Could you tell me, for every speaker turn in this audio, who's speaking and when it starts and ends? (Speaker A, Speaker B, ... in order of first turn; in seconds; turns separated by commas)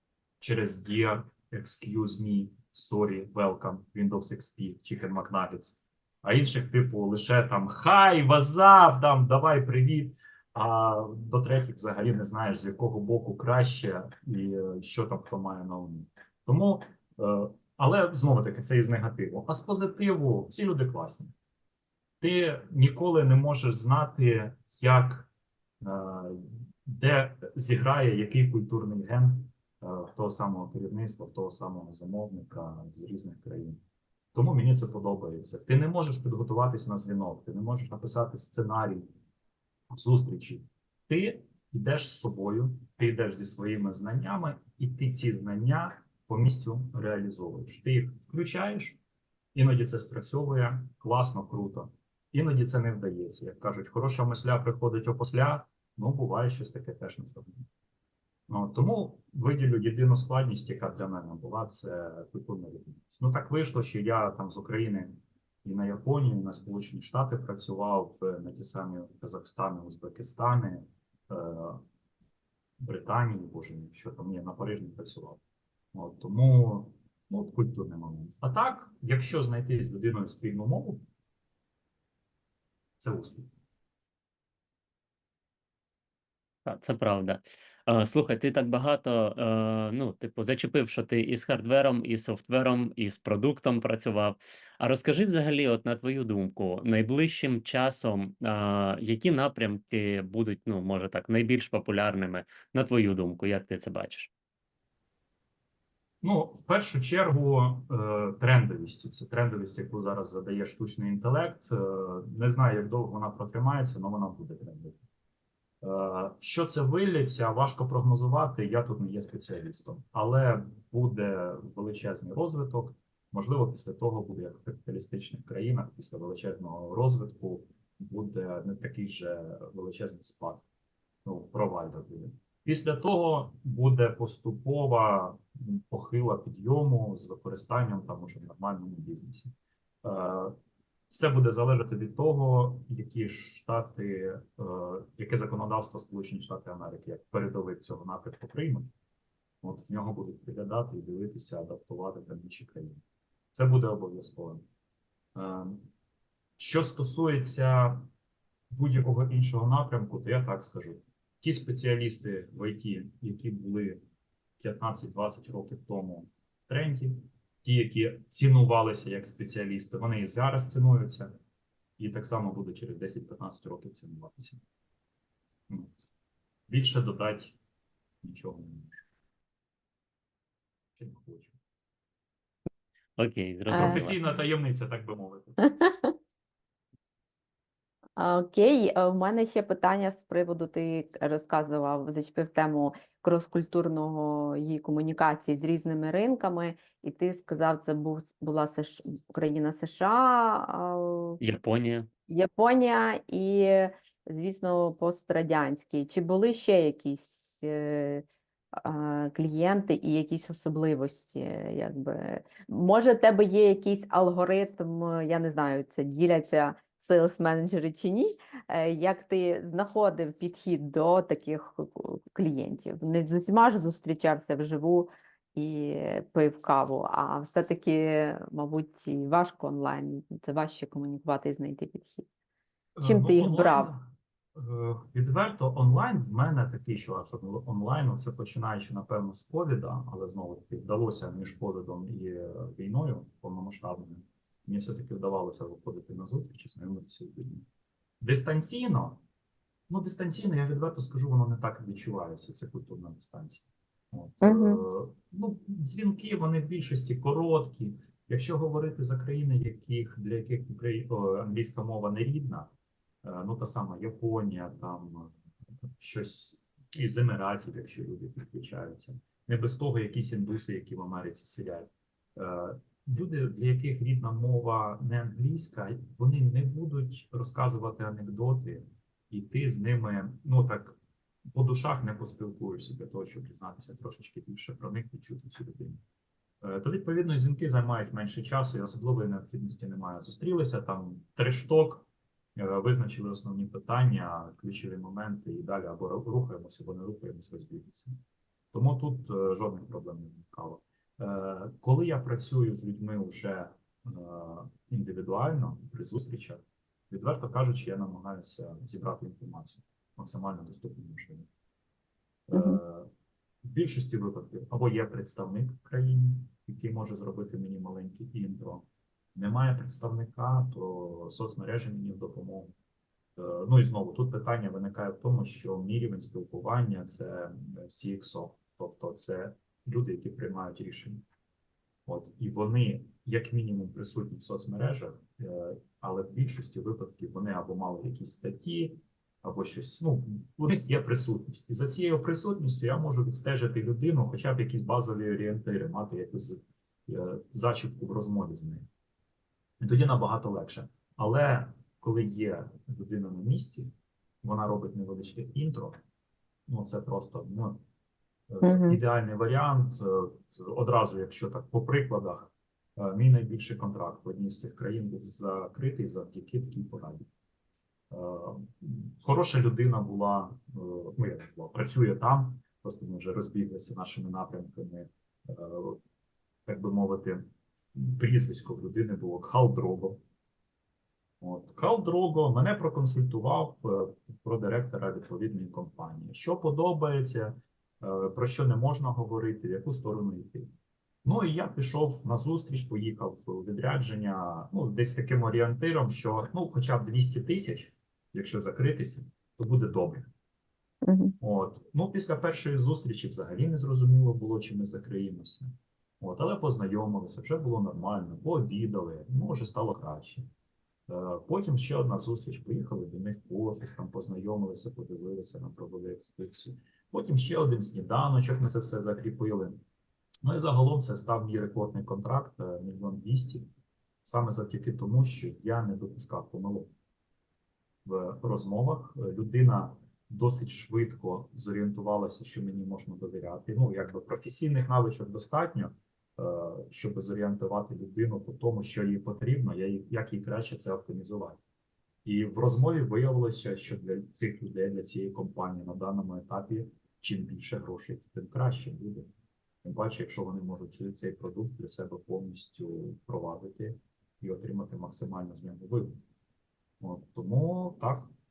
Speaker A: 0.4-21.3, Speaker A: 22.2-25.3, Speaker A: 25.8-33.8, Speaker A: 34.4-39.1, Speaker A: 39.9-49.0, Speaker A: 49.5-57.7, Speaker A: 58.5-71.8, Speaker A: 72.8-75.4, Speaker A: 75.9-81.0, Speaker A: 83.0-83.5, Speaker B: 86.7-104.3, Speaker A: 106.2-115.0, Speaker A: 115.8-130.7, Speaker A: 131.2-139.5, Speaker A: 140.0-140.6, Speaker A: 141.1-148.9, Speaker A: 149.6-154.7, Speaker A: 155.3-155.9, Speaker A: 156.6-158.1, Speaker A: 158.7-164.0, Speaker A: 164.6-171.3, Speaker A: 172.0-174.6, Speaker A: 175.7-176.1, Speaker A: 176.7-177.6, Speaker A: 178.2-179.0, Speaker A: 181.0-181.6, Speaker B: 183.2-184.2, Speaker C: 183.7-184.1, Speaker A: 183.7-185.6, Speaker C: 185.6-186.1, Speaker C: 188.2-201.4, Speaker B: 201.4-202.1, Speaker C: 202.3-208.2, Speaker C: 208.8-232.3, Speaker A: 233.0-247.7, Speaker C: 233.0-233.9, Speaker A: 248.2-249.2, Speaker A: 249.9-262.7, Speaker C: 254.4-254.8, Speaker A: 263.2-265.4, Speaker A: 266.0-281.0, Speaker A: 281.5-286.0, Speaker A: 286.6-298.2, Speaker A: 298.7-311.5, Speaker A: 312.5-313.1, Speaker C: 312.5-312.8, Speaker A: 313.6-322.7, Speaker A: 323.4-331.2, Speaker A: 332.1-348.9, Speaker A: 349.8-353.9, Speaker A: 354.4-356.0, Speaker A: 356.7-357.8, Speaker A: 358.5-367.3, Speaker C: 358.6-359.0, Speaker A: 368.1-376.0, Speaker A: 376.7-377.4, Speaker A: 377.9-380.2, Speaker A: 381.4-390.7, Speaker A: 391.2-400.3, Speaker C: 401.1-401.4, Speaker A: 401.4-405.7, Speaker A: 406.2-410.5, Speaker A: 411.1-419.8, Speaker A: 420.4-423.7, Speaker A: 424.2-426.9, Speaker A: 428.1-441.6, Speaker A: 442.2-449.3, Speaker A: 449.8-456.2, Speaker A: 457.0-458.3